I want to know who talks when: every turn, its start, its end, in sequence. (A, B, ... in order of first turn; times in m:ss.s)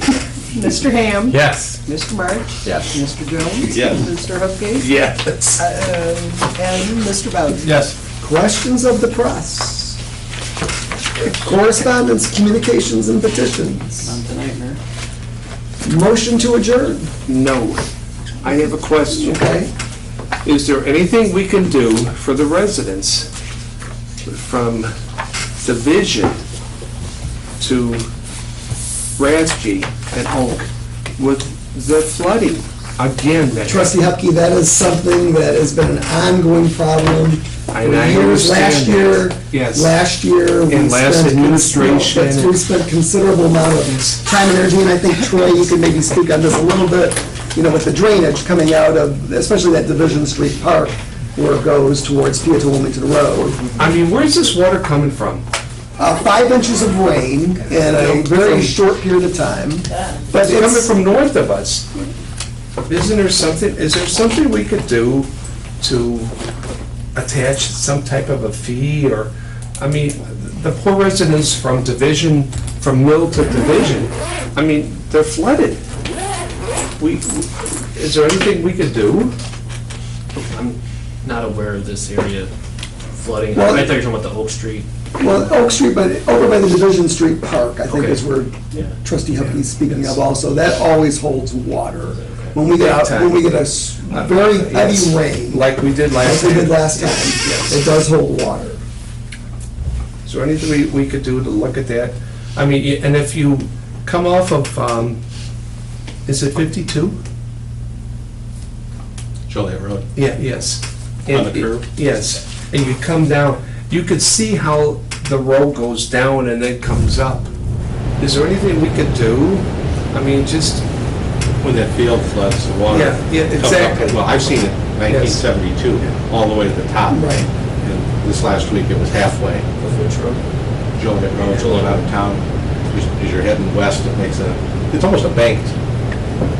0:00.5-0:05.0 A
0:01.3-0:01.8 B
0:02.7-0:02.9 B
0:05.0-0:05.6 C
0:05.6-0:07.9 A
0:07.6-0:07.9 B
0:08.2-0:10.0 D
0:11.2-0:14.2 D
0:14.1-0:14.8 A
0:15.8-0:17.1 D
0:17.3-0:17.8 C
0:18.4-0:19.4 C
0:19.1-0:19.7 D
0:20.4-0:23.3 C
0:24.2-0:24.9 C
0:25.6-0:26.4 C
0:27.6-0:28.1 C
0:29.2-0:33.9 C
0:33.7-0:53.7 D
0:37.7-0:39.9 C
0:40.7-0:42.6 C
0:53.8-0:55.4 C
0:56.0-1:00.9 D
0:57.8-0:58.8 C
1:00.3-1:01.9 C
1:02.9-1:06.3 C
1:07.2-1:15.8 C
1:17.0-1:19.3 C
1:21.3-1:22.4 B
1:23.2-1:24.8 B
1:23.3-1:24.0 A
1:23.6-1:24.0 D
1:25.2-1:35.6 D
1:32.7-1:33.6 C
1:34.1-1:37.8 C
1:36.2-1:38.8 D
1:40.2-1:45.2 C
1:46.3-1:47.2 C
1:49.5-1:50.1 E
1:50.2-1:57.5 C
1:51.3-1:52.0 E
1:58.2-2:00.9 C
2:01.6-2:09.7 E
2:02.9-2:04.4 C
2:05.1-2:06.1 C
2:07.1-2:07.5 D
2:09.8-2:10.4 B
2:11.0-2:15.8 E
2:11.5-2:11.9 B